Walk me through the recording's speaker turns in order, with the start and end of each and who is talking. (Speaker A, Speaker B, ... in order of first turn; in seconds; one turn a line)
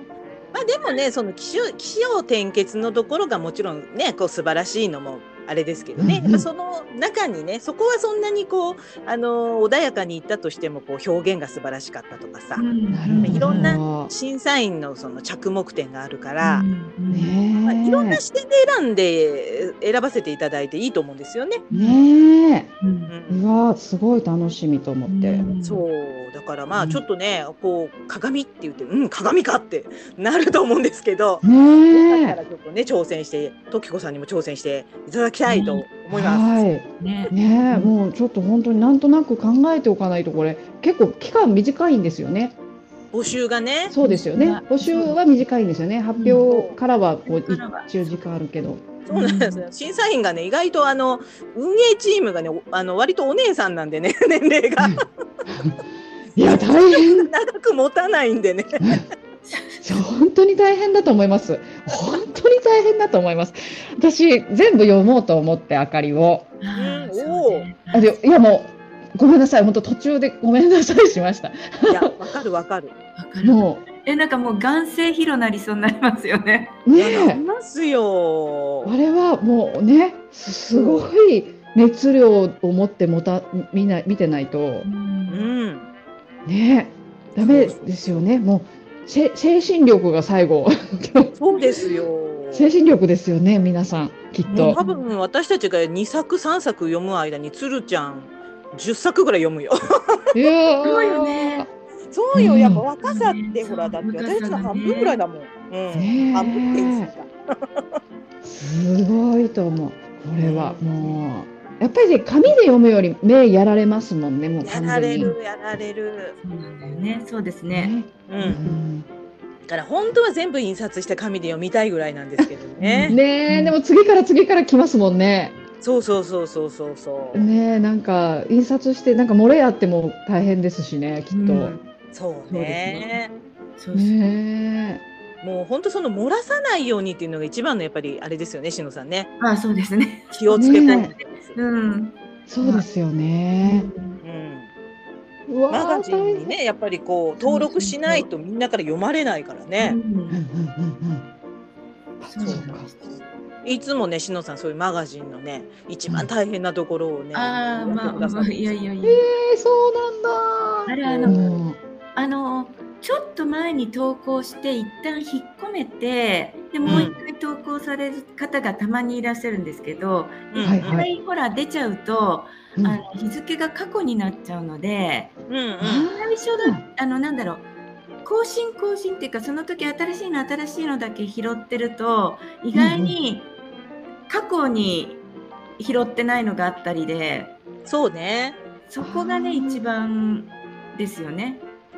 Speaker A: 0.5-12.7
Speaker B: 6.0-6.5
Speaker C: 12.6-13.8
Speaker B: 12.9-14.1
Speaker A: 13.2-16.7
Speaker C: 16.4-17.4
Speaker B: 17.1-18.2
Speaker A: 17.6-21.6
Speaker C: 21.7-22.0
Speaker B: 21.7-22.7
Speaker C: 22.8-23.1
Speaker A: 23.1-23.4
Speaker B: 23.3-25.5
Speaker C: 25.1-25.9
Speaker A: 25.6-36.7
Speaker B: 31.4-32.4
Speaker C: 35.5-35.9
Speaker B: 36.1-42.6
Speaker C: 37.0-37.9
Speaker A: 43.1-43.9
Speaker B: 43.9-48.9
Speaker C: 44.0-45.4
Speaker C: 46.2-46.5
Speaker A: 46.4-46.8
Speaker C: 47.2-48.0
Speaker A: 49.0-55.1
Speaker C: 49.1-49.6
Speaker B: 56.4-57.3
Speaker A: 56.4-58.9
Speaker C: 59.5-60.0
Speaker B: 59.8-66.5
Speaker C: 66.6-68.1
Speaker A: 66.8-67.7
Speaker B: 67.9-72.2
Speaker A: 71.9-72.9
Speaker C: 73.2-76.8
Speaker B: 73.4-73.8
Speaker B: 76.9-77.4
Speaker A: 77.0-79.0
Speaker B: 78.8-84.9
Speaker A: 80.8-81.1
Speaker C: 84.8-85.5
Speaker A: 85.3-85.9
Speaker B: 86.5-91.3
Speaker A: 87.3-88.2
Speaker A: 91.4-92.7
Speaker B: 92.5-94.8
Speaker C: 94.5-95.1
Speaker A: 94.7-100.2
Speaker B: 100.3-101.7
Speaker C: 100.8-101.7
Speaker A: 102.1-108.0
Speaker C: 102.3-105.2
Speaker B: 102.4-102.8
Speaker B: 105.9-107.1
Speaker B: 108.4-115.3
Speaker A: 110.4-110.8
Speaker C: 110.7-111.3
Speaker A: 114.6-116.4
Speaker C: 116.4-118.8
Speaker B: 117.7-119.1
Speaker A: 118.3-118.6
Speaker A: 119.7-123.2
Speaker C: 122.8-123.8
Speaker B: 123.1-125.6
Speaker A: 125.8-127.5
Speaker B: 127.3-131.7
Speaker C: 131.3-131.9
Speaker A: 132.1-133.3
Speaker C: 132.5-133.2
Speaker C: 133.8-134.2
Speaker B: 133.9-135.0
Speaker A: 135.4-139.3
Speaker C: 139.4-142.9
Speaker A: 140.3-141.6
Speaker B: 140.5-141.1
Speaker B: 142.5-143.9
Speaker C: 143.6-144.2
Speaker A: 144.2-144.7
Speaker B: 145.5-146.6
Speaker A: 145.7-150.0
Speaker C: 147.4-148.3
Speaker C: 149.8-150.4
Speaker B: 150.3-151.3
Speaker B: 152.2-152.9
Speaker C: 152.3-153.0
Speaker A: 152.4-158.8
Speaker C: 157.3-159.3
Speaker B: 159.0-161.8
Speaker C: 160.9-161.4
Speaker A: 161.1-161.5
Speaker C: 162.2-175.3
Speaker A: 166.8-167.2
Speaker B: 166.9-167.1
Speaker A: 170.5-171.1
Speaker B: 170.6-171.1
Speaker B: 172.8-173.0
Speaker A: 175.5-176.1
Speaker B: 175.8-176.8
Speaker C: 176.1-177.7
Speaker C: 178.2-183.5
Speaker B: 182.7-183.2
Speaker C: 184.3-185.2
Speaker C: 185.8-187.6
Speaker A: 187.9-188.6
Speaker C: 188.9-191.7
Speaker B: 189.0-189.8